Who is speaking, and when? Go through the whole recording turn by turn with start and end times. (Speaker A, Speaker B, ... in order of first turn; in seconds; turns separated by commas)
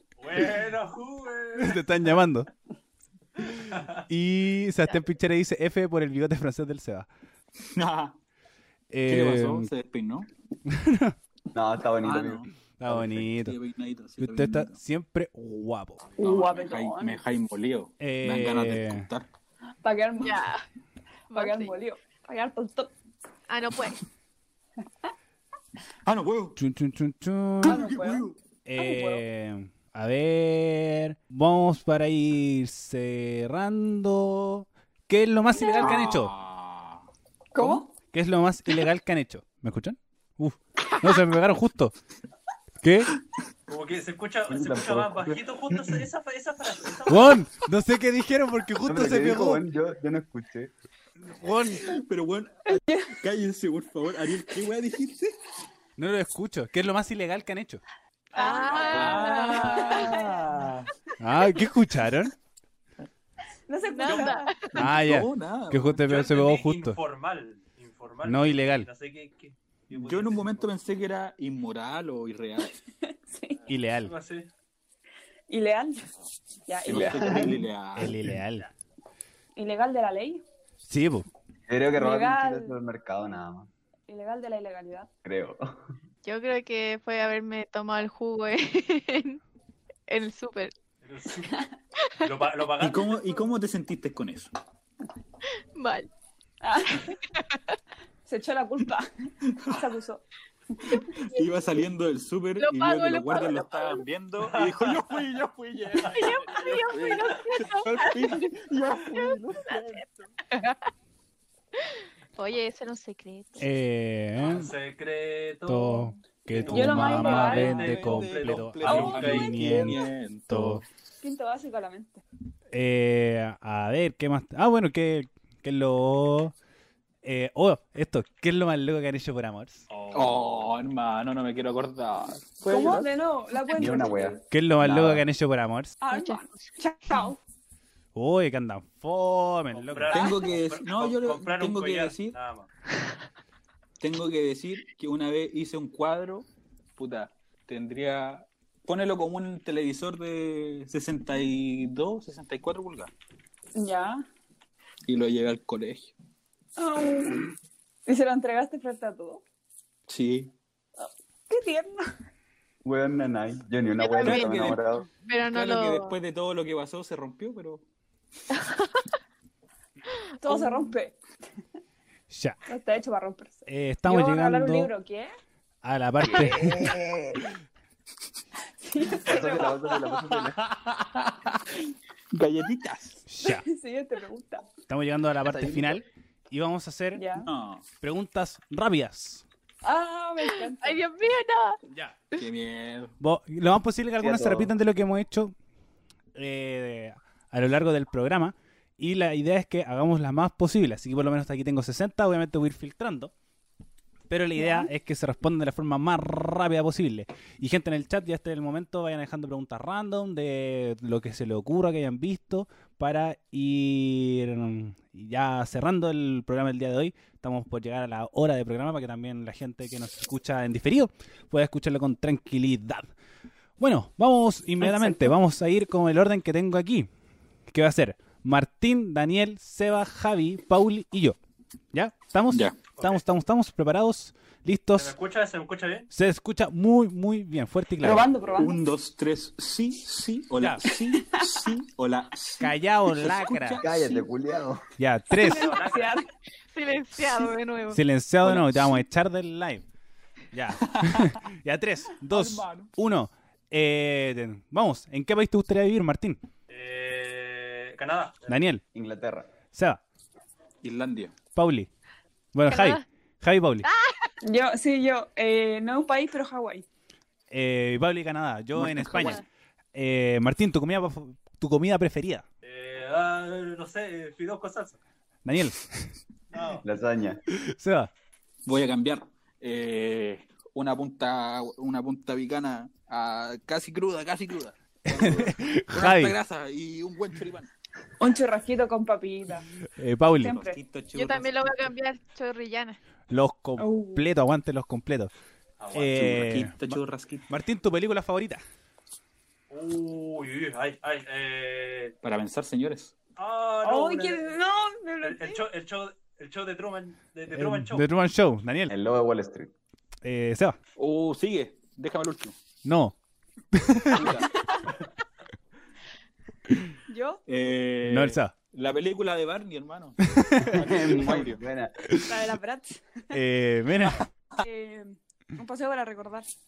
Speaker A: 0.2-1.9, Speaker B: 1.6-2.5, Speaker B: 3.5-7.1, Speaker A: 3.6-4.0, Speaker C: 7.6-8.2, Speaker B: 8.9-9.7, Speaker C: 9.1-10.3, Speaker B: 10.7-11.2, Speaker D: 11.5-12.5, Speaker C: 12.0-14.8, Speaker B: 12.8-13.6, Speaker B: 14.2-16.1, Speaker C: 16.2-19.3, Speaker E: 16.2-17.2, Speaker B: 18.0-19.1, Speaker E: 19.8-20.4, Speaker F: 20.2-20.6, Speaker F: 21.3-21.8, Speaker E: 21.3-22.9, Speaker F: 23.5-24.0, Speaker C: 26.0-26.6, Speaker B: 26.6-27.9, Speaker C: 27.6-28.4, Speaker E: 27.6-29.2, Speaker B: 28.6-36.3, Speaker C: 35.8-37.0, Speaker E: 37.5-37.9, Speaker B: 37.6-41.9, Speaker B: 42.8-43.1, Speaker A: 43.7-47.5, Speaker D: 44.5-45.4, Speaker B: 47.1-49.6, Speaker D: 48.8-50.7, Speaker B: 51.2-52.0, Speaker C: 51.8-55.3, Speaker E: 52.7-53.1, Speaker B: 56.0-57.8, Speaker E: 58.3-60.7, Speaker F: 58.3-60.1, Speaker A: 58.4-59.4, Speaker C: 58.8-60.9, Speaker B: 61.2-62.3, Speaker E: 63.7-64.5, Speaker F: 63.9-64.8, Speaker A: 64.0-64.4, Speaker C: 64.8-66.0, Speaker B: 64.8-67.0, Speaker A: 66.0-70.7, Speaker B: 68.2-68.9, Speaker C: 69.9-72.8, Speaker E: 73.0-73.6, Speaker B: 73.7-74.1, Speaker A: 74.0-74.5, Speaker E: 75.5-76.1, Speaker E: 76.7-77.6, Speaker C: 76.8-78.2, Speaker D: 76.9-77.5, Speaker B: 78.0-78.7, Speaker E: 79.5-80.4, Speaker B: 80.8-81.3, Speaker D: 81.7-83.7, Speaker E: 81.9-82.8, Speaker E: 84.1-85.1, Speaker D: 85.2-85.8, Speaker F: 86.2-89.4, Speaker F: 90.1-90.7, Speaker A: 91.0-91.6, Speaker F: 92.0-92.3, Speaker A: 92.2-93.2, Speaker C: 92.8-94.5, Speaker F: 95.7-96.1, Speaker E: 96.6-97.2, Speaker F: 97.3-97.7, Speaker E: 98.2-100.2, Speaker C: 99.4-99.8, Speaker C: 100.9-110.3, Speaker F: 102.6-104.0, Speaker A: 104.4-105.2, Speaker A: 106.0-107.3, Speaker F: 106.1-108.5, Speaker F: 109.1-110.0, Speaker F: 110.5-110.8, Speaker F: 111.8-113.7, Speaker B: 113.6-114.7, Speaker A: 114.4-119.7, Speaker B: 115.7-120.8, Speaker E: 116.7-117.9, Speaker C: 116.8-120.8, Speaker E: 118.9-119.4, Speaker E: 121.2-122.2, Speaker B: 122.7-126.5, Speaker B: 127.2-129.9, Speaker A: 129.9-130.7, Speaker C: 130.0-133.1, Speaker E: 132.7-134.4, Speaker D: 133.7-135.2, Speaker B: 134.5-136.0, Speaker E: 136.0-137.4, Speaker F: 136.1-136.4, Speaker B: 138.1-140.3, Speaker A: 139.7-142.7, Speaker C: 140.1-142.4, Speaker C: 144.0-153.1, Speaker E: 153.8-154.2, Speaker C: 155.1-156.1, Speaker E: 156.8-157.5, Speaker E: 158.1-159.4, Speaker C: 160.1-160.5, Speaker E: 161.0-162.0, Speaker D: 162.8-165.1, Speaker F: 164.0-164.7, Speaker C: 164.2-167.8, Speaker F: 165.2-166.2, Speaker F: 168.5-169.1, Speaker F: 170.1-170.9, Speaker E: 170.4-171.2, Speaker B: 172.3-172.6, Speaker E: 172.7-175.3, Speaker B: 173.7-174.9, Speaker B: 175.8-176.9, Speaker D: 176.2-177.4, Speaker E: 178.8-179.7, Speaker D: 179.2-180.6, Speaker C: 179.9-181.8, Speaker C: 182.3-183.2, Speaker B: 183.3-183.6, Speaker E: 183.4-184.7, Speaker B: 184.9-187.3, Speaker D: 185.4-186.0, Speaker E: 187.1-187.5, Speaker C: 187.4-187.9, Speaker B: 188.0-189.4, Speaker E: 189.8-191.0, Speaker F: 190.4-191.8, Speaker C: 192.3-193.1, Speaker B: 193.2-195.5, Speaker D: 194.2-194.7, Speaker B: 196.3-203.3, Speaker B: 204.3-223.1, Speaker B: 223.8-227.1, Speaker E: 224.8-225.2, Speaker B: 227.7-231.4, Speaker B: 231.9-235.1, Speaker C: 232.5-232.9, Speaker A: 232.9-233.2, Speaker A: 234.9-236.1, Speaker B: 236.1-238.3, Speaker E: 238.0-238.8, Speaker C: 238.5-243.9, Speaker B: 240.6-240.8, Speaker E: 241.1-241.6, Speaker B: 242.6-243.8, Speaker D: 243.8-244.8, Speaker B: 245.0-245.8, Speaker E: 245.3-246.3, Speaker A: 245.4-246.2, Speaker F: 246.7-248.0, Speaker B: 247.9-249.8, Speaker C: 248.4-249.0, Speaker B: 250.5-256.4, Speaker C: 250.8-251.3, Speaker C: 252.2-252.9, Speaker A: 256.7-258.5, Speaker B: 258.5-258.8, Speaker D: 258.9-259.5, Speaker B: 259.7-260.0, Speaker C: 260.8-261.3, Speaker B: 261.5-261.9, Speaker B: 262.5-263.9, Speaker F: 262.7-263.0, Speaker F: 263.8-264.3, Speaker E: 264.4-266.8, Speaker B: 267.5-269.4, Speaker C: 268.7-269.4, Speaker B: 269.9-272.4, Speaker A: 272.6-275.0, Speaker B: 275.4-276.1, Speaker A: 276.5-276.8, Speaker D: 276.8-277.4, Speaker B: 277.6-278.1, Speaker C: 278.6-287.7, Speaker B: 285.1-286.4, Speaker E: 288.2-289.6, Speaker B: 290.0-290.6, Speaker E: 290.4-290.8, Speaker C: 290.4-291.8, Speaker F: 291.1-293.0, Speaker B: 293.3-295.3, Speaker E: 293.8-294.2, Speaker A: 295.8-296.3, Speaker B: 295.9-298.6, Speaker C: 296.1-297.5, Speaker A: 299.7-302.1, Speaker C: 302.2-303.1, Speaker A: 303.4-304.5, Speaker E: 303.8-305.6, Speaker A: 305.2-308.0, Speaker B: 307.5-308.9, Speaker D: 308.9-309.7, Speaker B: 310.2-310.8, Speaker C: 310.9-312.6, Speaker B: 312.8-313.1, Speaker B: 313.7-314.4, Speaker C: 314.1-314.5, Speaker E: 314.4-314.9, Speaker E: 317.1-317.4, Speaker C: 317.5-321.6, Speaker B: 318.0-318.5, Speaker B: 320.3-320.9, Speaker D: 320.7-321.9, Speaker B: 322.0-322.4, Speaker E: 322.2-323.4, Speaker B: 323.3-324.3, Speaker E: 324.6-326.5